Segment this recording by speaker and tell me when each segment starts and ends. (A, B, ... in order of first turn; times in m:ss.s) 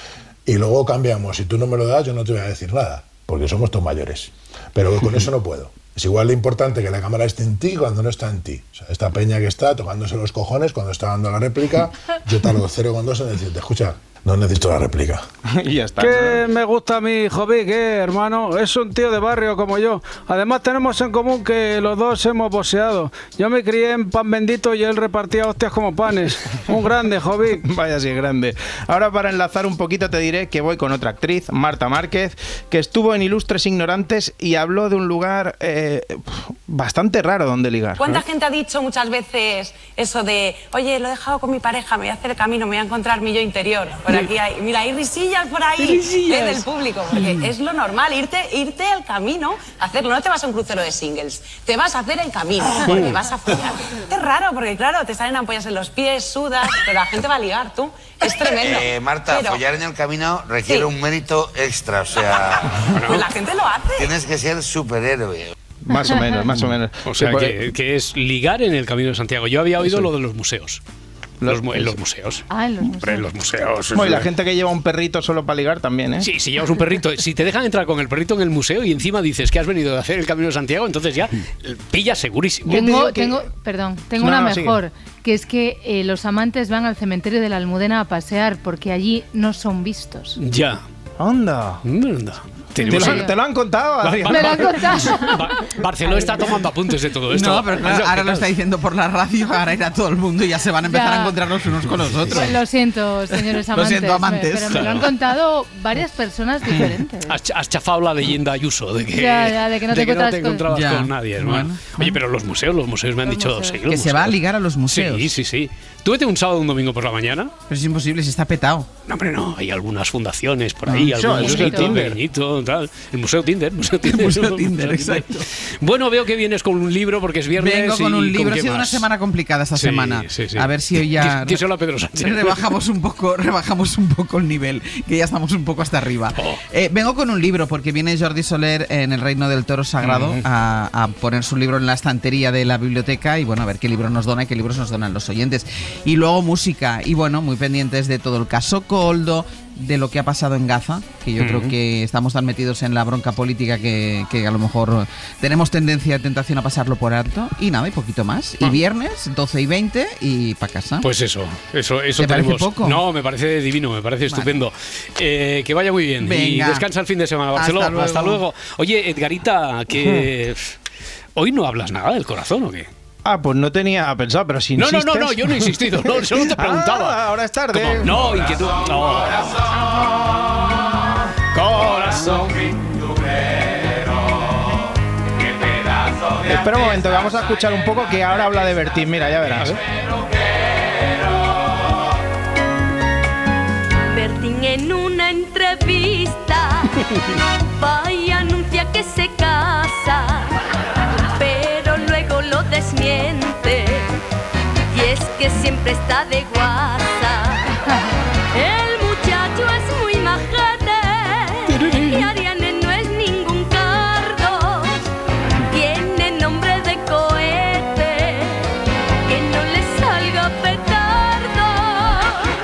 0:00.4-0:15.2 A
0:15.5-0:16.4 B
0:16.0-0:27.6 C
0:27.6-0:38.2 B
0:38.0-0:59.7 D
0:45.8-0:46.6 E
0:52.8-0:53.2 E
0:58.6-1:02.6 F
1:02.3-1:04.2 D
1:02.9-1:03.2 E
1:04.0-1:05.5 F
1:05.8-1:07.6 B
1:07.0-1:10.8 E
1:11.4-1:12.0 B
1:11.4-1:12.5 E
1:12.5-1:13.2 G
1:13.0-1:14.3 E
1:13.9-1:16.3 B
1:16.2-1:22.8 E
1:22.7-1:23.4 B
1:22.7-1:30.4 G
1:24.2-1:24.8 B
1:30.4-1:30.8 E
1:31.2-1:31.8 B
1:31.8-1:33.3 E
1:32.8-1:33.3 G
1:32.9-1:35.1 B
1:34.0-1:38.5 E
1:34.3-1:35.5 G
1:36.1-1:36.5 G
1:37.3-1:42.6 H
1:40.9-1:41.4 G
1:42.3-1:47.3 G
1:43.6-1:44.8 H
1:44.7-1:45.0 E
1:46.7-1:57.5 E
1:49.2-1:50.6 G
1:50.7-1:52.2 H
1:53.3-1:53.7 G
1:53.8-1:55.3 H
1:57.7-1:58.9 H
1:59.1-2:09.1 E
2:00.9-2:01.4 H
2:01.2-2:02.2 B
2:01.3-2:02.0 G
2:04.0-2:05.4 H
2:07.6-2:11.6 H
2:09.7-2:12.6 E
2:12.1-2:41.1 H
2:20.0-2:20.4 E
2:31.4-2:31.7 E
2:41.0-2:50.8 E
2:42.2-2:43.0 H
2:44.3-2:44.6 H
2:46.2-2:46.8 H
2:47.5-2:48.4 H
2:49.9-2:50.2 B
2:51.4-2:52.9 E
2:53.2-2:58.4 B
2:54.8-2:57.2 E
2:57.7-2:59.6 E
3:01.5-3:02.6 E
3:06.4-3:09.8 B
3:14.1-3:16.9 I
3:17.8-3:20.6 I
3:21.3-3:24.1 I
3:24.9-3:27.8 I
3:28.5-3:35.0 I
3:31.8-3:32.2 E
3:35.7-3:38.6 I
3:39.3-3:42.5 I